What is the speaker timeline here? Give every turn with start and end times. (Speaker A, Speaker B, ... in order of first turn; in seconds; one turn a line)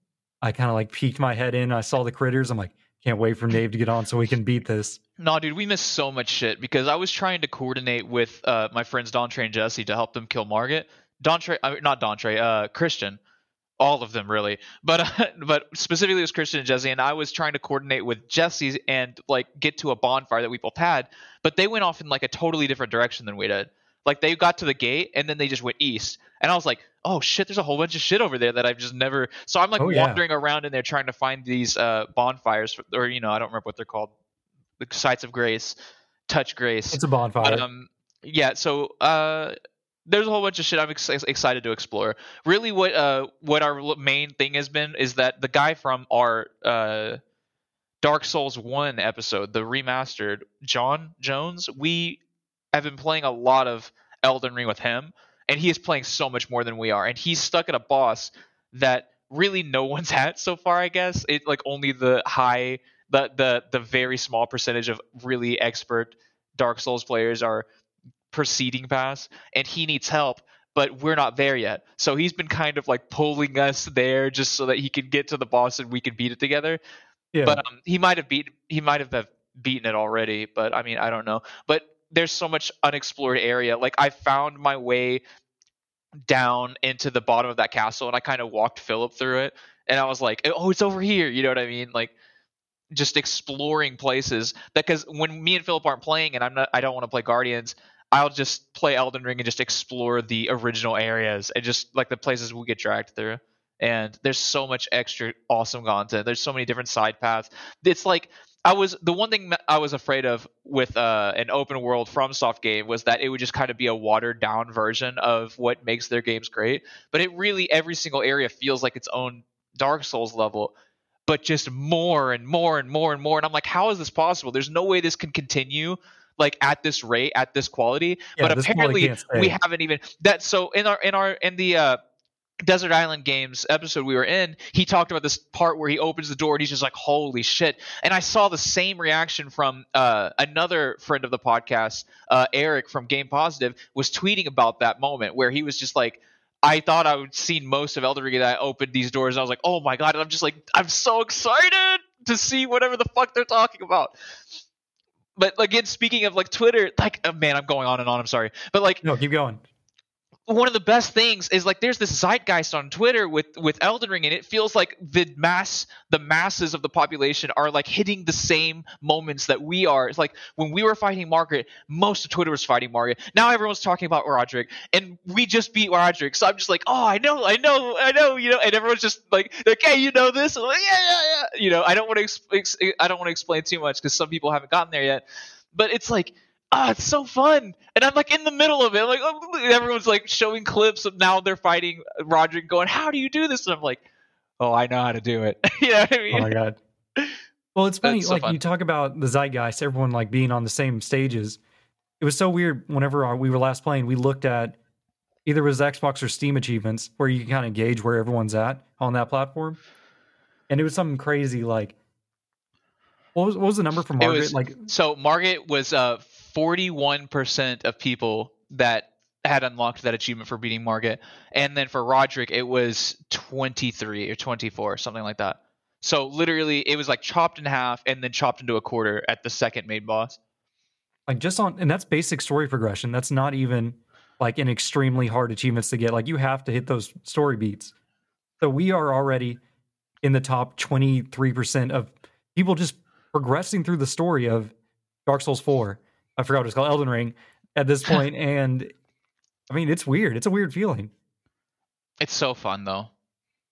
Speaker A: 0.4-5.0
Speaker B: 5.2-13.2
Speaker B: 13.8-34.1
Speaker A: 29.8-30.2
Speaker B: 34.8-35.8
Speaker B: 36.3-39.5
Speaker A: 36.9-37.6
Speaker B: 40.1-47.2
Speaker B: 48.0-52.2
Speaker B: 52.7-67.6
Speaker B: 68.3-76.8
Speaker A: 77.3-77.6
Speaker B: 77.4-85.2
Speaker B: 86.3-92.1
Speaker B: 92.9-120.7
Speaker B: 121.3-132.0
Speaker A: 128.4-129.6
Speaker B: 132.6-154.6
Speaker B: 155.4-159.0
Speaker A: 159.0-159.6
Speaker B: 160.5-185.2
Speaker B: 185.7-194.0
Speaker B: 194.6-196.5
Speaker A: 196.3-196.8
Speaker A: 197.7-201.6
Speaker B: 198.0-198.6
Speaker A: 202.2-204.8
Speaker A: 205.4-209.8
Speaker A: 210.7-211.9
Speaker A: 213.3-214.8
Speaker B: 214.2-230.4
Speaker A: 231.3-237.9
Speaker A: 238.6-239.6
Speaker A: 240.2-244.7
Speaker A: 245.2-248.9
Speaker A: 249.7-251.1
Speaker B: 252.2-253.1